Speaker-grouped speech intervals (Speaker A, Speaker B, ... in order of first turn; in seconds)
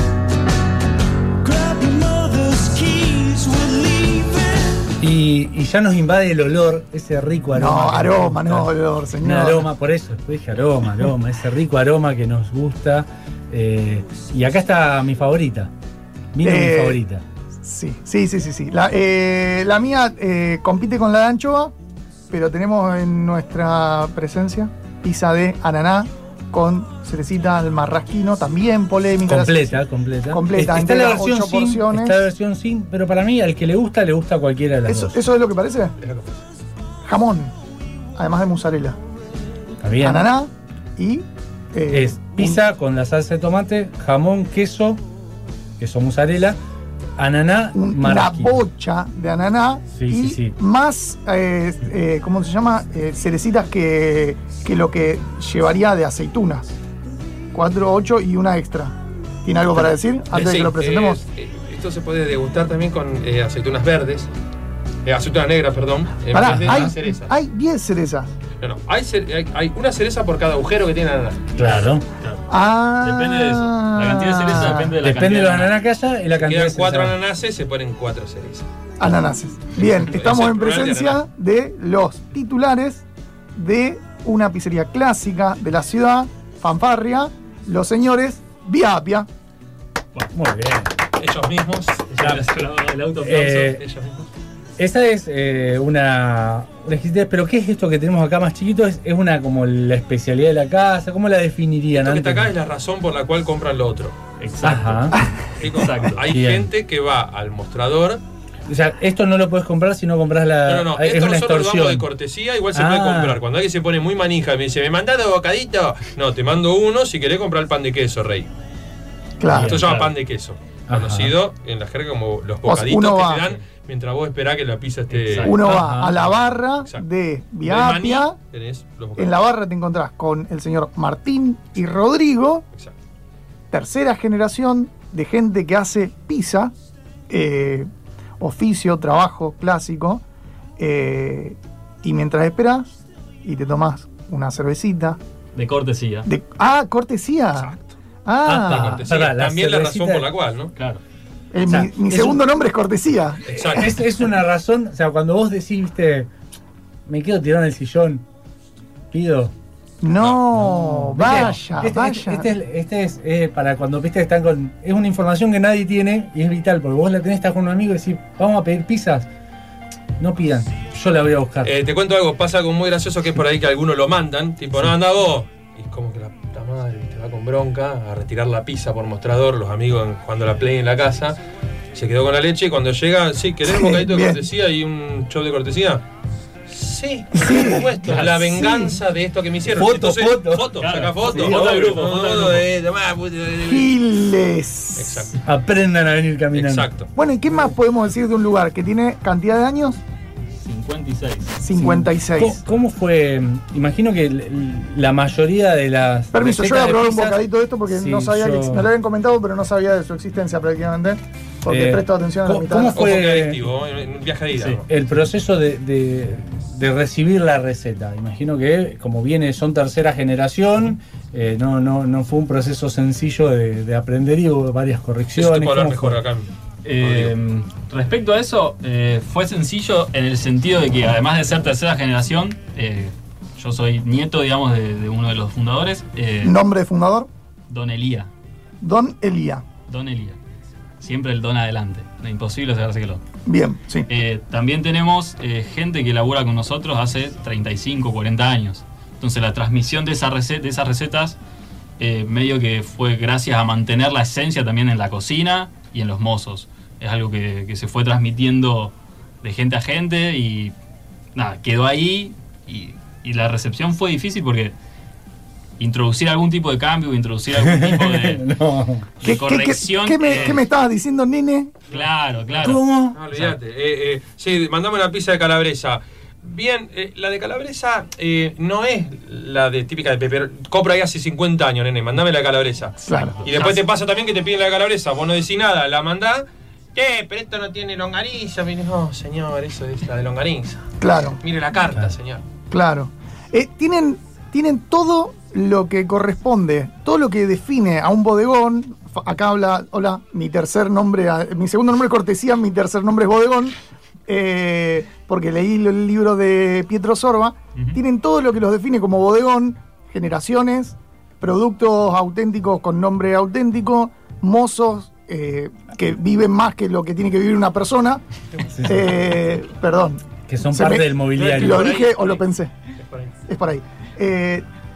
Speaker A: 1.4-4.9
Speaker B: 5.0-15.7, 16.3-17.2, 29.3-35.2, 39.8-40.3, 41.9-45.0, 45.8-46.6, 47.2-48.6, 49.9-50.5, 66.5-66.9, 71.5-72.0, 75.0-77.1, 90.2-90.9, 93.2-93.8, 94.8-102.5, 104.6-105.2, 106.2-106.7, 108.7-112.0, 112.7-113.4, 120.9-121.3, 125.6-126.1, 148.4-150.3, 151.6-152.4, 153.5-156.3, 157.1-158.2, 159.1-159.5, 160.5-169.3, 170.2-171.7, 189.7-191.7, 195.4-196.9, 201.7-207.4, 207.9-208.9, 211.7-213.7, 214.6-226.2, 267.6-269.2, 272.6-273.1, 318.8-319.0, 320.5-321.9
Speaker C: 7.5-9.7, 16.4-17.0, 17.6-21.7, 22.3-32.2, 34.9-35.9, 37.0-37.5, 38.1-39.0, 40.0-42.6, 47.7-56.8, 57.5-61.2, 66.3-68.3, 72.5-74.9, 79.0-89.3, 119.4-119.8, 122.7-123.5, 125.4-128.4, 129.2-132.6, 133.7-136.7, 137.3-137.9, 138.4-140.2, 140.8-142.9, 143.4-145.2, 146.2-147.7, 148.2-149.0, 151.5-153.4, 160.0-162.5, 183.6-184.4, 187.4-187.9, 193.6-195.3, 197.2-200.0, 201.6-202.6, 206.3-213.0, 236.4-237.3, 238.8-239.6, 243.4-244.1, 269.2-271.8, 283.0-283.4, 291.0-291.4, 292.7-318.2, 318.9-322.7, 323.5-324.6
Speaker D: 36.0-36.4, 60.3-64.3, 65.0-67.3, 68.6-71.5, 76.4-78.7, 80.0-81.2, 91.2-92.4, 93.4-94.3, 101.9-104.2, 105.6-108.2, 110.7-118.5, 119.5-125.6, 126.2-127.0, 127.6-129.3, 147.6-147.9, 148.7-150.7, 153.4-153.9, 171.6-181.4, 181.9-186.0, 186.7-193.9, 194.9-195.4, 196.5-197.1, 212.9-214.8, 225.4-227.3, 272.6-290.9, 291.4-292.4, 321.4-322.4, 323.0-323.3
Speaker E: 71.6-72.4, 73.0-75.8, 92.1-93.6, 104.4-106.2, 119.5-120.1, 125.1-125.7, 145.5-146.3, 150.8-151.0, 190.8-192.7, 200.6-201.5, 226.8-236.5, 237.7-238.3, 239.9-240.4, 241.0-243.2, 244.1-251.4, 252.0-260.7, 261.4-264.8, 265.8-268.4, 269.2-270.6, 271.9-273.6, 283.1-283.8